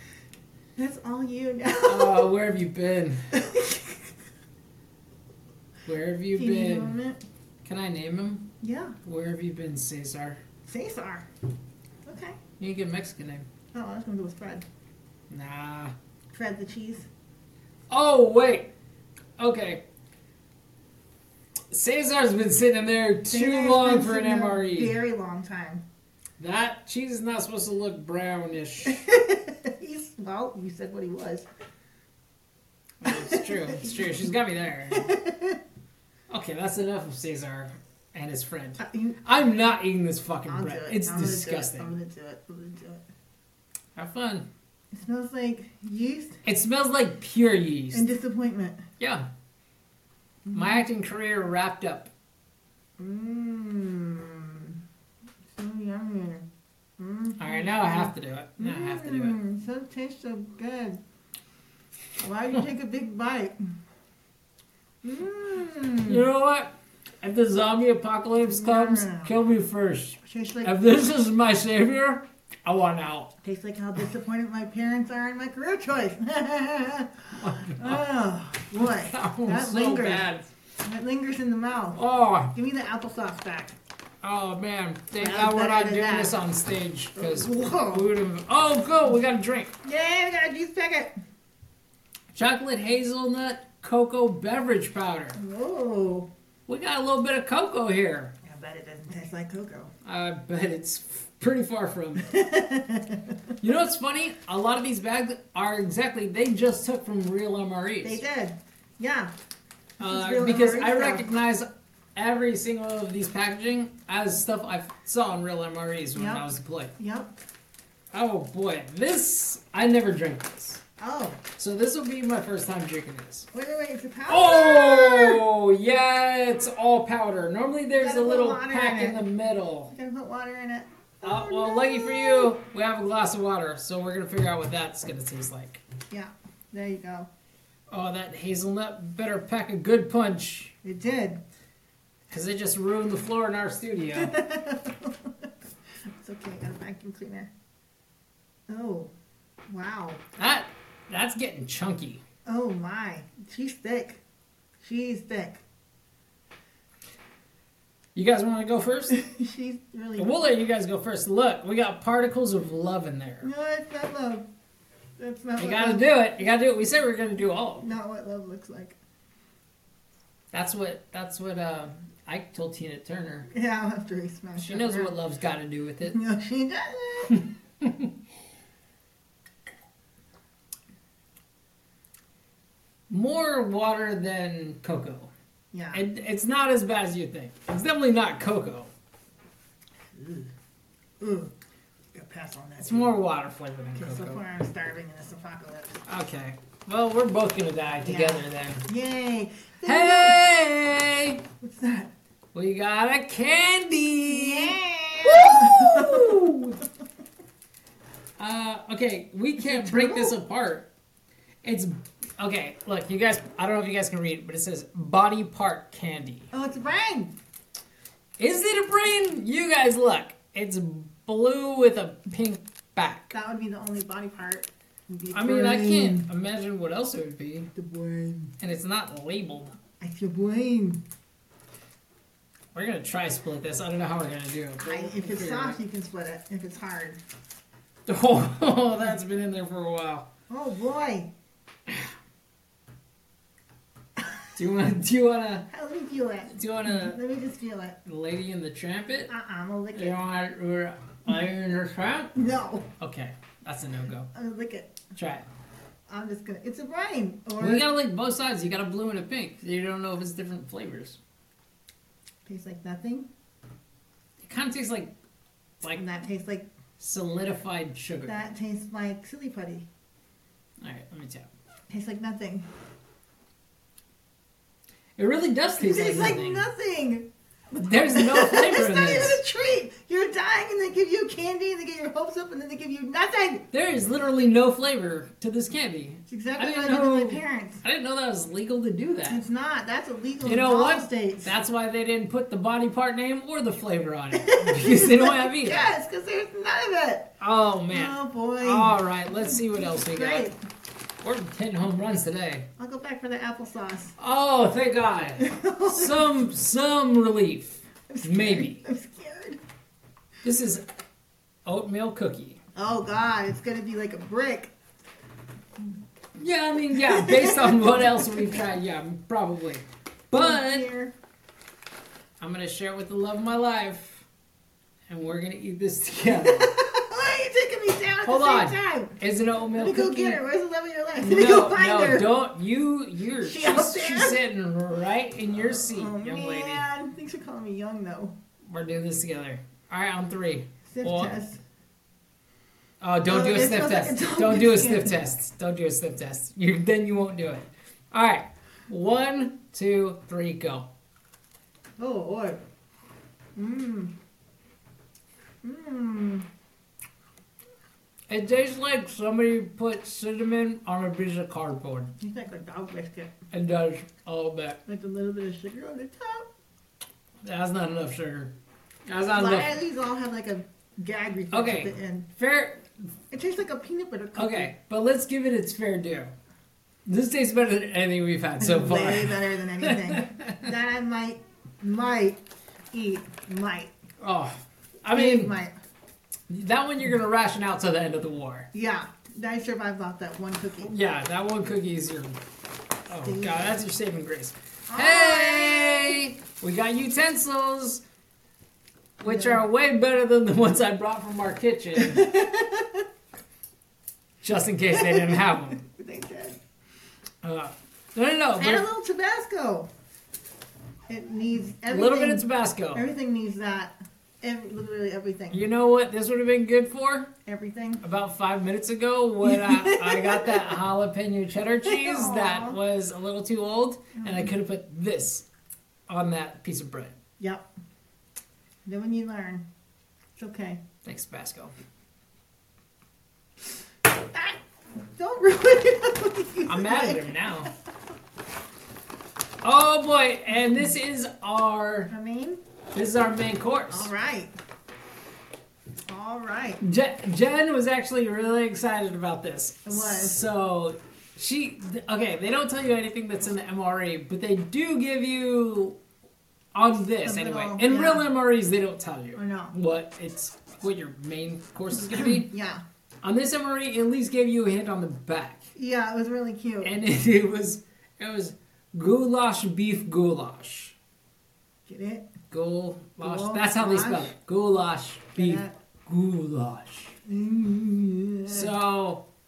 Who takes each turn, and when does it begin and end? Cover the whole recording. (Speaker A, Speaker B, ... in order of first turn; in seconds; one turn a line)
Speaker A: 0.8-2.3
Speaker B: 1.9-3.2
Speaker A: 3.3-4.0
Speaker B: 5.8-7.0
Speaker A: 6.3-7.2
Speaker B: 7.6-8.5
Speaker A: 8.6-9.0
Speaker B: 9.0-10.4
Speaker A: 10.7-11.3
Speaker A: 12.1-12.4
Speaker B: 12.6-13.5
Speaker A: 13.7-14.7
Speaker B: 15.3-15.9
Speaker A: 16.3-17.1
Speaker B: 17.9-18.7
Speaker B: 19.4-19.8
Speaker B: 21.7-25.0
Speaker A: 23.3-25.8
Speaker B: 26.4-29.0
Speaker A: 28.9-31.5
Speaker B: 33.0-35.1
Speaker A: 33.1-34.2
Speaker A: 34.9-35.6
Speaker B: 36.3-41.9
Speaker A: 38.8-39.2
Speaker A: 40.5-43.0
Speaker B: 44.0-44.5
Speaker A: 44.9-46.4
Speaker B: 46.5-48.1
Speaker A: 47.9-48.8
Speaker B: 49.0-49.3
Speaker A: 50.5-50.8
Speaker B: 50.5-52.1
Speaker A: 53.0-54.8
Speaker A: 55.5-56.5
Speaker A: 57.0-61.0
Speaker B: 57.4-59.4
Speaker A: 62.2-63.6
Speaker A: 65.0-66.2
Speaker B: 66.1-73.3
Speaker A: 68.4-69.3
Speaker A: 70.2-70.7
Speaker A: 73.4-80.3
Speaker B: 77.3-78.1
Speaker B: 78.8-80.5
Speaker A: 80.8-82.0
Speaker B: 82.0-82.5
Speaker A: 82.5-83.8
Speaker B: 84.2-89.7
Speaker A: 85.2-86.4
Speaker A: 87.2-88.1
Speaker A: 89.8-91.1
Speaker B: 92.3-95.4
Speaker A: 95.4-96.3
Speaker B: 96.7-98.3
Speaker A: 98.5-99.9
Speaker B: 100.0-102.3
Speaker A: 102.2-103.4
Speaker B: 103.6-108.2
Speaker A: 108.0-109.3
Speaker A: 110.0-111.3
Speaker B: 110.0-116.9
Speaker A: 116.2-116.5
Speaker A: 117.0-117.3
Speaker B: 118.1-120.8
Speaker A: 121.0-121.4
Speaker B: 121.6-123.5
Speaker A: 123.5-125.4
Speaker B: 124.3-129.9
Speaker A: 128.0-129.2
Speaker A: 129.9-132.5
Speaker B: 131.2-135.8
Speaker A: 136.1-137.3
Speaker B: 137.9-140.8
Speaker A: 140.8-141.4
Speaker B: 142.3-144.4
Speaker A: 144.2-145.5
Speaker A: 146.2-147.5
Speaker A: 148.7-149.1
Speaker A: 149.7-150.2
Speaker B: 150.4-152.2
Speaker A: 152.4-154.2
Speaker A: 154.8-155.6
Speaker B: 158.2-159.2
Speaker A: 159.1-160.3
Speaker B: 160.2-163.5
Speaker A: 163.4-164.5
Speaker A: 165.2-166.1
Speaker B: 165.6-167.9
Speaker A: 167.8-169.0
Speaker B: 170.5-173.5
Speaker A: 173.5-175.1
Speaker B: 174.6-176.2
Speaker A: 176.1-177.4
Speaker B: 177.8-178.1
Speaker B: 183.1-185.3
Speaker A: 185.7-186.1
Speaker B: 185.9-188.9
Speaker A: 190.1-190.5
Speaker A: 191.2-191.5
Speaker A: 192.1-193.1
Speaker B: 192.8-194.4
Speaker A: 194.0-196.0
Speaker B: 196.1-198.9
Speaker A: 198.0-200.4
Speaker B: 199.8-201.4
Speaker A: 201.6-202.1
Speaker B: 202.5-206.8
Speaker A: 204.3-206.4
Speaker B: 208.4-210.9
Speaker A: 209.6-210.4
Speaker B: 211.6-216.5
Speaker A: 216.5-217.3
Speaker B: 218.4-223.3
Speaker A: 223.3-226.3
Speaker B: 225.3-227.7
Speaker A: 227.7-228.5
Speaker B: 228.6-229.8
Speaker A: 230.0-231.0
Speaker B: 232.7-235.8
Speaker A: 234.8-237.2
Speaker B: 238.1-240.3
Speaker A: 240.5-241.3
Speaker B: 244.6-245.7
Speaker A: 245.7-248.0
Speaker B: 246.5-247.2
Speaker B: 248.1-249.3
Speaker A: 249.3-250.2
Speaker B: 249.9-252.3
Speaker A: 252.3-252.9
Speaker B: 253.0-254.3
Speaker A: 254.3-255.0
Speaker B: 255.1-255.5
Speaker A: 256.1-257.9
Speaker B: 257.6-261.2
Speaker A: 262.4-263.3
Speaker B: 264.4-265.1
Speaker A: 265.9-266.7
Speaker B: 267.0-268.4
Speaker A: 268.2-269.9
Speaker B: 270.8-271.5
Speaker A: 271.9-272.7
Speaker B: 275.2-276.7
Speaker A: 275.8-283.6
Speaker B: 277.8-279.4
Speaker B: 283.7-289.4
Speaker A: 286.3-287.8
Speaker A: 289.3-291.5
Speaker B: 290.4-295.9
Speaker A: 294.3-297.3
Speaker B: 297.4-300.5
Speaker A: 297.9-300.6
Speaker B: 301.2-302.7
Speaker A: 302.8-304.1
Speaker B: 304.2-308.8
Speaker A: 305.4-306.4
Speaker A: 308.1-309.6
Speaker B: 310.4-310.8
Speaker B: 311.7-312.6
Speaker A: 312.8-314.7
Speaker B: 316.4-320.9
Speaker A: 316.9-318.6
Speaker A: 320.3-321.1
Speaker B: 322.4-324.2
Speaker B: 325.1-326.7
Speaker A: 326.3-329.2
Speaker B: 328.2-330.4
Speaker A: 329.8-332.3
Speaker B: 331.2-336.9
Speaker A: 333.4-334.4
Speaker A: 335.6-338.3
Speaker B: 338.7-341.3
Speaker A: 340.9-341.6
Speaker B: 343.0-350.9
Speaker A: 343.3-345.2
Speaker A: 352.0-352.6
Speaker A: 353.6-354.1
Speaker A: 355.6-356.5
Speaker B: 358.3-362.1
Speaker A: 362.2-363.3
Speaker B: 363.5-364.8
Speaker A: 364.9-366.5
Speaker B: 367.4-368.5
Speaker B: 369.1-369.8
Speaker A: 369.3-372.3
Speaker B: 371.5-372.8
Speaker A: 373.3-374.7
Speaker B: 374.4-376.3
Speaker B: 377.1-380.7
Speaker A: 378.6-383.9
Speaker B: 384.2-385.5
Speaker A: 385.1-385.8
Speaker B: 386.5-388.7
Speaker A: 388.7-390.9
Speaker B: 390.9-392.4
Speaker B: 393.1-398.0
Speaker A: 393.2-393.8
Speaker A: 394.9-396.2
Speaker B: 399.2-402.3
Speaker A: 399.2-399.6
Speaker A: 402.0-403.0
Speaker B: 404.4-405.8
Speaker A: 405.0-406.6
Speaker B: 407.4-408.9
Speaker A: 408.6-409.9
Speaker A: 411.1-415.6
Speaker B: 411.9-413.1
Speaker B: 415.5-417.3
Speaker A: 417.4-418.0
Speaker B: 418.0-425.4
Speaker A: 419.4-420.6
Speaker A: 421.9-422.8
Speaker A: 424.2-424.6
Speaker B: 426.1-427.1
Speaker A: 427.4-427.7
Speaker A: 428.9-429.6
Speaker A: 430.4-430.8
Speaker B: 431.0-431.7
Speaker A: 435.2-437.6
Speaker B: 436.7-437.7
Speaker B: 439.6-442.1
Speaker A: 442.1-442.6
Speaker B: 442.9-444.1
Speaker A: 443.9-444.5
Speaker A: 446.1-446.8
Speaker B: 446.8-456.0
Speaker A: 449.9-450.4
Speaker B: 456.7-462.5
Speaker A: 457.1-458.3
Speaker A: 459.4-459.7
Speaker A: 462.0-462.8
Speaker B: 463.2-465.6
Speaker A: 465.8-467.0
Speaker B: 466.8-470.9
Speaker A: 471.9-472.3
Speaker B: 472.5-477.1
Speaker A: 473.2-474.3
Speaker A: 475.4-475.8
Speaker A: 477.2-478.7
Speaker B: 478.5-479.2